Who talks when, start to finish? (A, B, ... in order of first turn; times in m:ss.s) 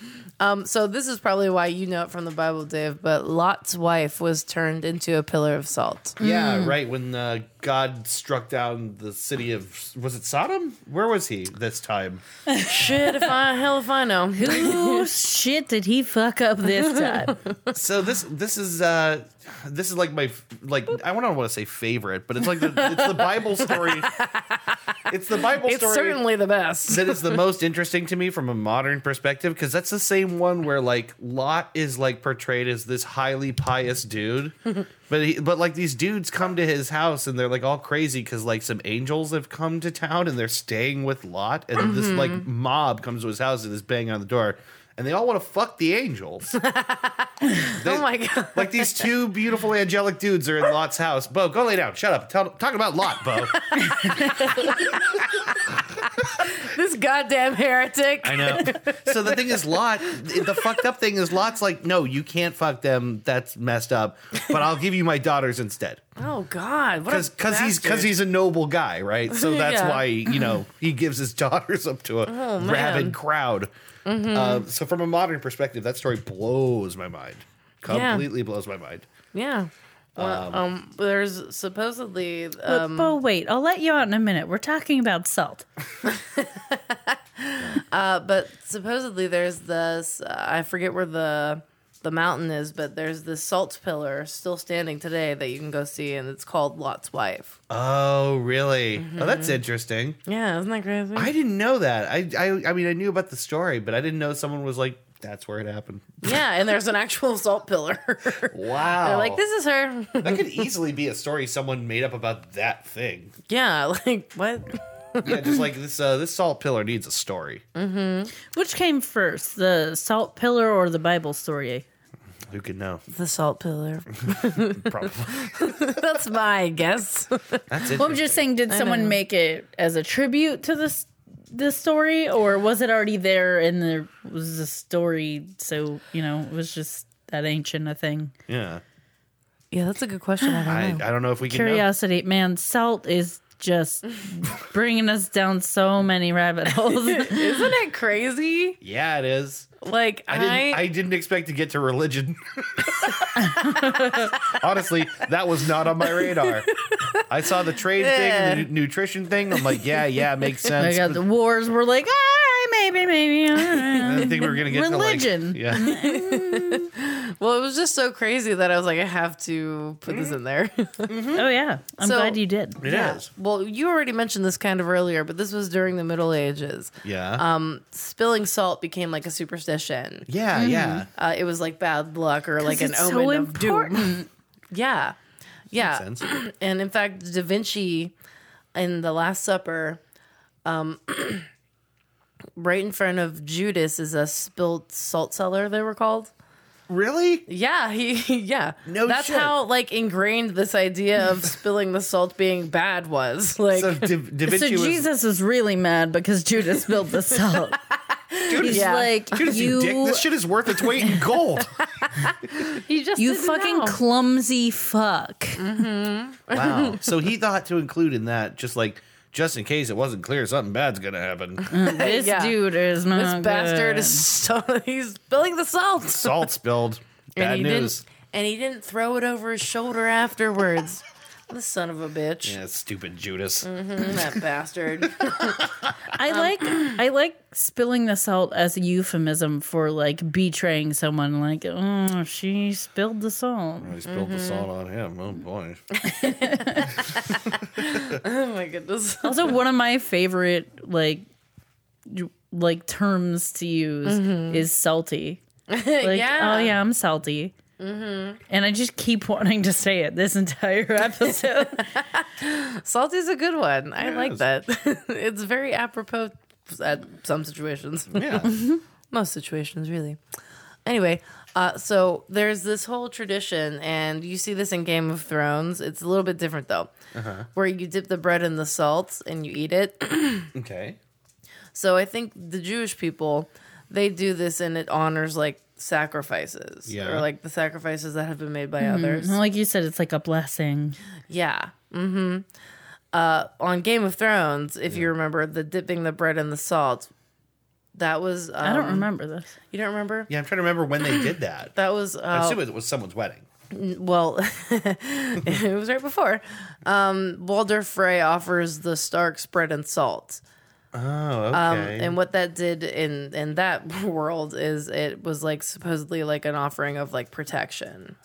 0:00.4-0:06.2 A
0:06.2-0:06.8 B
0:06.2-0:12.2 C
0:12.5-0:13.3 B
0:12.6-0:15.1 A
0:14.3-0:17.4 B
0:16.7-0:17.7 A
0:17.7-0:24.1 C
0:22.5-0:27.4 A
0:25.1-0:26.2 C
0:26.9-0:34.6 C
0:35.1-0:46.5 C
0:41.8-0:42.4 A
0:46.5-0:49.1 A
0:47.7-0:54.9 C
0:53.5-1:00.8 A
0:58.2-1:06.0 C
1:06.2-1:08.2 A
1:07.1-1:13.7 C
1:09.3-1:10.6 A
1:12.2-1:13.2 A
1:14.0-1:14.7 A
1:14.3-1:19.1 C
1:17.9-1:18.3 A
1:19.3-1:23.1 A
1:20.2-1:20.6 C
1:22.6-1:25.6 B
1:26.0-1:37.6 A
1:37.7-1:40.2 C
1:39.0-1:39.6 A
1:40.2-1:41.3 A
1:41.2-1:46.4 C
1:46.2-1:50.7 A
1:48.5-1:49.4 C
1:50.2-1:53.4 C
1:53.5-1:55.6 A
1:55.2-1:57.6 C
1:57.7-1:58.3 A
1:58.4-2:01.8 B
2:02.5-2:03.0 C
2:03.1-2:07.8 A
2:04.3-2:05.5 C
2:07.7-2:08.4 C
2:08.0-2:18.3 B
2:08.7-2:09.2 A
2:18.5-2:18.8 C
2:19.7-2:21.0 A
2:20.4-2:20.7 B
2:20.7-2:21.8 C
2:21.5-2:27.7 B
2:26.9-2:28.8 A
2:28.8-2:29.7 C
2:29.8-2:30.9 A
2:30.3-2:33.2 C
2:33.3-2:34.3 B
2:34.3-2:34.6 A
2:34.3-2:36.7 C
2:36.0-2:37.2 A
2:37.3-2:41.2 C
2:37.9-2:38.7 A
2:39.5-2:40.7 A
2:40.8-2:46.9 B
2:44.0-2:45.9 C
2:45.7-2:51.2 A
2:51.1-2:51.4 C
2:51.3-2:52.8 B
2:52.0-3:00.3 A
2:52.8-2:53.3 C
2:57.0-2:57.4 C
3:00.3-3:01.1 C
3:00.5-3:01.0 B
3:01.1-3:04.2 A
3:02.6-3:04.3 B
3:04.7-3:05.2 A
3:05.7-3:08.1 A
3:05.8-3:06.2 C
3:08.7-3:10.0 A
3:10.6-3:11.5 A
3:12.6-3:16.3 A
3:16.9-3:17.4 C
3:17.5-3:24.1 A
3:18.8-3:19.6 C
3:23.7-3:25.0 C
3:24.4-3:27.8 B
3:27.5-3:29.2 A
3:28.5-3:31.7 C
3:28.6-3:30.3 B
3:30.9-3:34.0 A
3:33.2-3:35.6 B
3:35.6-3:37.1 A
3:36.5-3:41.7 C
3:41.6-3:46.5 A
3:41.7-3:44.2 B
3:46.1-3:48.0 C
3:47.4-3:52.6 A
3:52.4-3:54.3 C
3:53.6-3:55.7 A
3:55.4-3:55.9 C
3:56.1-4:04.0 B
3:56.3-3:57.0 A
4:03.8-4:05.8 C
4:04.0-4:04.7 A
4:06.0-4:09.6 A
4:06.1-4:07.0 B
4:07.8-4:08.1 C
4:09.2-4:11.2 B
4:12.1-4:15.4 B
4:14.0-4:14.6 A
4:15.7-4:16.8 A
4:16.0-4:17.5 B
4:17.8-4:18.4 A
4:18.5-4:22.0 B
4:21.8-4:30.2 A
4:24.0-4:24.4 C
4:28.1-4:28.5 C
4:30.8-4:36.9 A
4:37.1-4:37.5 C
4:37.5-4:40.5 A
4:40.5-4:41.0 C
4:41.7-4:49.4 A
4:46.9-4:47.3 C
4:48.8-4:51.0 B
4:51.3-4:52.4 A
4:53.1-4:57.1 A
4:57.9-4:59.1 A
4:58.6-4:59.5 B
4:59.7-5:00.3 A
5:00.3-5:01.7 C
5:01.1-5:02.6 A
5:02.3-5:03.4 C
5:03.7-5:10.4 A
5:10.9-5:12.2 C
5:11.5-5:18.2 A